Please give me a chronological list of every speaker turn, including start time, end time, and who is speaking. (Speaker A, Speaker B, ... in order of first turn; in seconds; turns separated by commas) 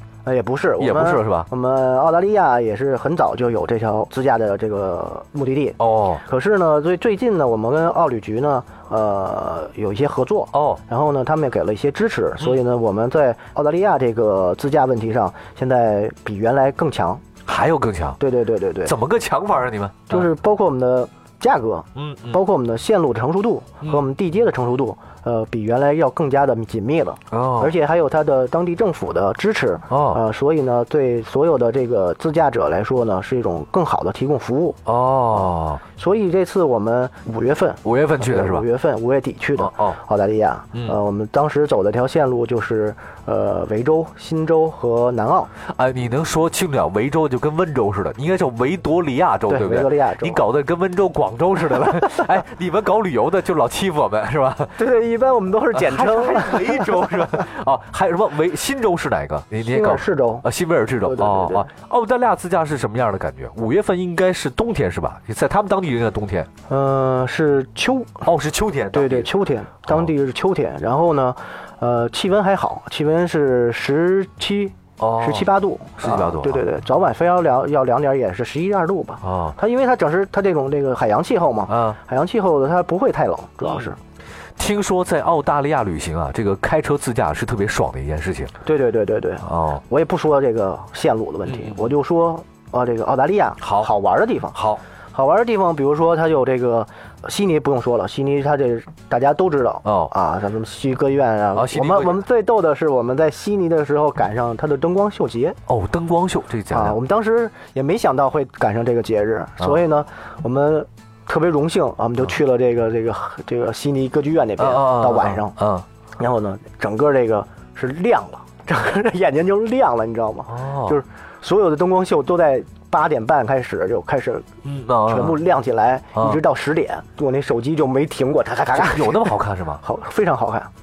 Speaker A: 0.2-17.2, Speaker B: 0.8-1.5, Speaker B: 5.8-6.2, Speaker B: 10.5-10.8, Speaker B: 17.4-18.2, Speaker A: 18.2-18.9, Speaker B: 18.9-20.3, Speaker A: 20.1-34.8, Speaker B: 21.9-22.4, Speaker B: 27.3-27.8, Speaker B: 29.9-30.2, Speaker B: 34.9-35.8, Speaker A: 35.4-45.5, Speaker B: 37.8-38.7, Speaker B: 39.6-40.0, Speaker B: 45.6-54.8, Speaker A: 49.5-50.4, Speaker A: 54.8-57.5, Speaker B: 55.7-66.5, Speaker A: 59.6-60.5, Speaker A: 61.0-61.7, Speaker A: 66.7-68.3, Speaker B: 68.2-69.3, Speaker A: 68.9-84.0, Speaker B: 75.0-75.5, Speaker B: 76.0-76.7, Speaker B: 79.2-79.6, Speaker B: 81.7-82.0, Speaker B: 84.6-88.5, Speaker A: 88.6-94.6, Speaker B: 89.4-89.8, Speaker B: 91.5-91.9, Speaker B: 93.6-93.9, Speaker B: 94.5-94.8, Speaker A: 95.1-105.6, Speaker B: 99.8-100.1, Speaker B: 101.5-102.2, Speaker B: 105.7-107.0, Speaker A: 106.7-115.6, Speaker B: 114.6-115.9, Speaker A: 116.2-124.5, Speaker B: 120.5-121.0, Speaker B: 124.6-125.4, Speaker A: 125.0-130.7, Speaker B: 126.2-126.4, Speaker B: 128.7-129.8